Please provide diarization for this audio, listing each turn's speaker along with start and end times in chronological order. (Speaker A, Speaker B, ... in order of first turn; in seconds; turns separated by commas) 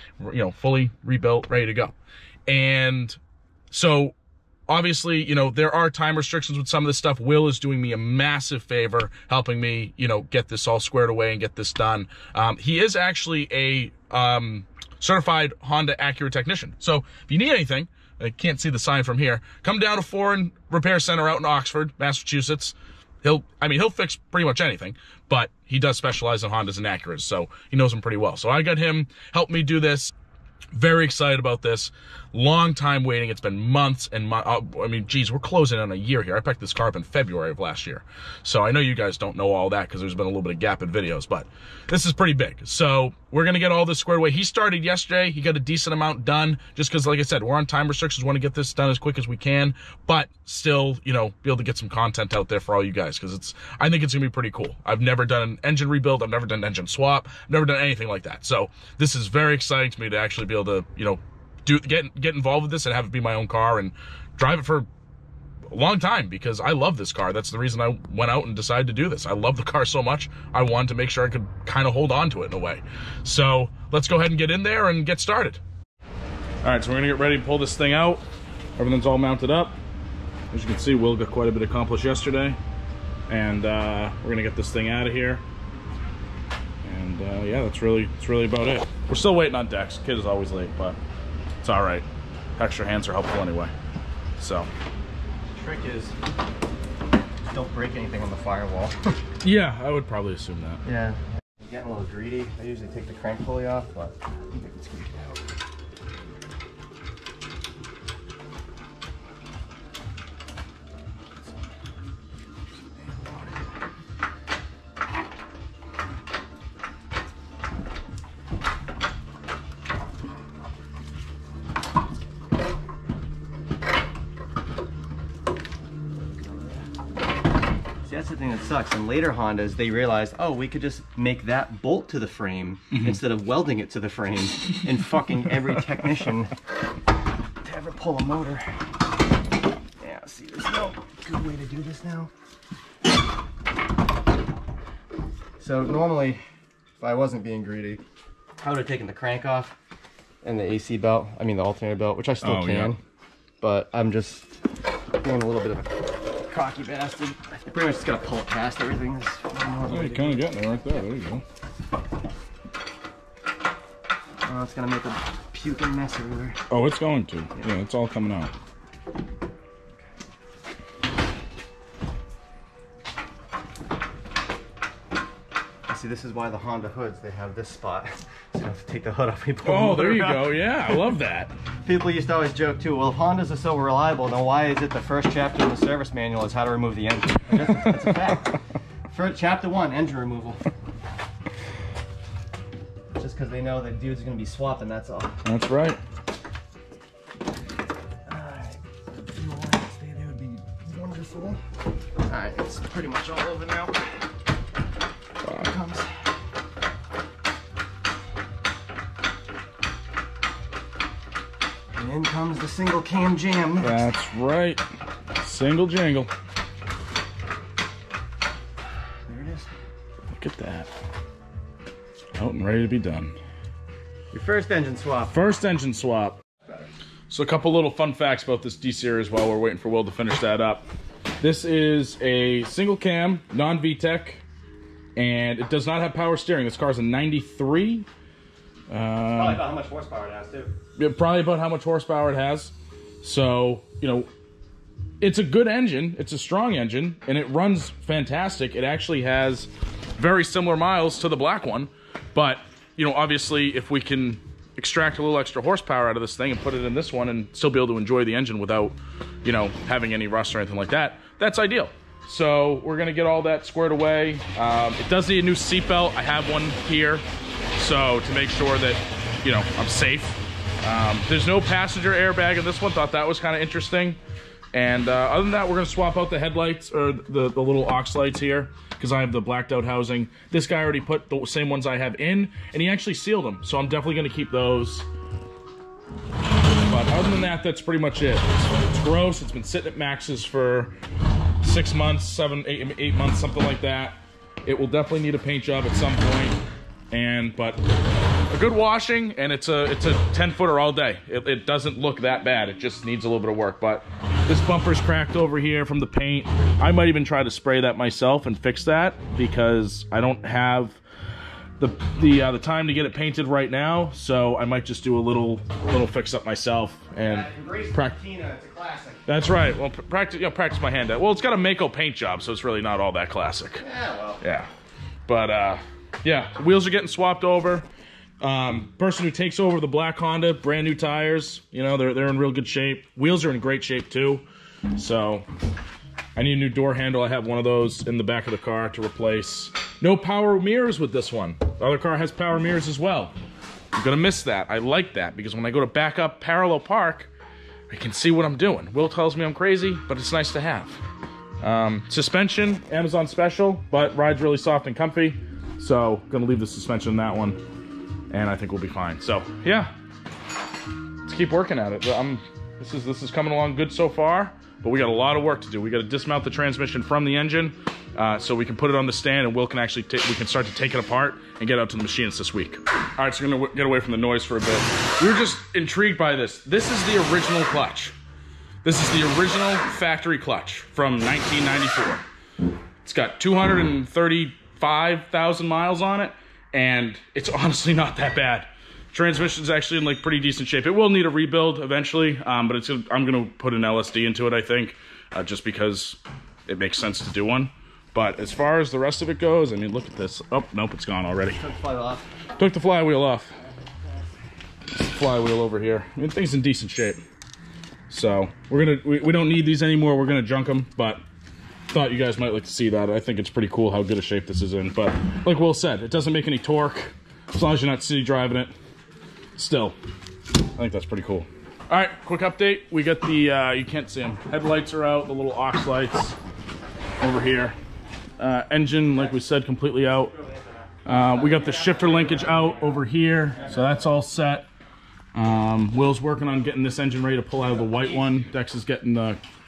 Speaker A: 0.2-1.9, Speaker A: 2.5-3.2, Speaker A: 3.7-4.2, Speaker A: 4.7-30.1, Speaker A: 30.7-64.9, Speaker A: 65.7-75.6, Speaker A: 76.6-78.2, Speaker A: 78.8-79.8, Speaker A: 80.5-82.6, Speaker A: 83.3-85.4, Speaker A: 86.8-91.0, Speaker A: 91.6-92.1, Speaker A: 92.6-93.7, Speaker A: 94.4-94.7, Speaker B: 95.5-96.2, Speaker B: 97.4-99.2, Speaker A: 99.4-100.8, Speaker B: 100.8-105.4, Speaker B: 113.0-113.3, Speaker B: 126.5-126.8, Speaker B: 128.0-136.5, Speaker B: 137.6-138.7, Speaker B: 140.0-142.3, Speaker B: 145.6-146.4, Speaker B: 147.0-148.0, Speaker B: 148.6-149.8, Speaker B: 150.4-153.0, Speaker A: 152.4-153.0, Speaker B: 153.6-154.5, Speaker B: 155.2-160.4, Speaker A: 159.9-161.4, Speaker B: 164.4-166.6, Speaker A: 166.7-168.5, Speaker B: 175.9-180.6, Speaker A: 179.6-181.5, Speaker B: 181.8-188.6, Speaker B: 189.1-190.6, Speaker B: 193.2-195.3, Speaker A: 195.4-196.0, Speaker B: 198.3-198.8, Speaker B: 199.3-201.6, Speaker B: 202.3-204.0, Speaker A: 205.4-205.7, Speaker B: 205.6-206.1, Speaker B: 211.9-214.0, Speaker A: 213.8-214.8, Speaker A: 215.4-216.3, Speaker B: 219.3-219.7, Speaker A: 220.3-220.9, Speaker A: 222.4-223.4, Speaker B: 224.3-225.4, Speaker A: 225.3-226.4, Speaker A: 227.3-230.8, Speaker A: 231.4-234.4, Speaker A: 235.2-238.1, Speaker A: 238.9-239.7, Speaker B: 239.3-240.7, Speaker A: 241.0-244.3, Speaker A: 245.2-267.2, Speaker A: 267.8-274.2, Speaker A: 274.7-285.1, Speaker A: 286.8-290.9, Speaker A: 291.6-296.6, Speaker A: 297.1-297.8, Speaker A: 298.5-311.0, Speaker A: 311.8-318.2, Speaker B: 317.2-319.3, Speaker A: 319.3-323.9, Speaker B: 323.8-324.4, Speaker A: 324.4-324.7, Speaker A: 325.3-327.9, Speaker A: 328.4-335.5, Speaker A: 336.4-343.3, Speaker A: 343.9-347.3, Speaker A: 347.9-351.0, Speaker A: 351.6-357.6, Speaker A: 358.3-359.9, Speaker A: 361.2-378.1, Speaker A: 378.8-382.2, Speaker A: 383.0-401.6, Speaker B: 401.5-402.3, Speaker A: 402.6-403.5, Speaker A: 405.0-407.2, Speaker A: 408.1-411.2, Speaker A: 411.9-418.7, Speaker A: 419.6-420.0, Speaker A: 420.8-426.4, Speaker A: 427.2-427.8, Speaker A: 428.4-430.3, Speaker B: 430.2-432.6, Speaker A: 431.1-434.7, Speaker A: 435.3-439.4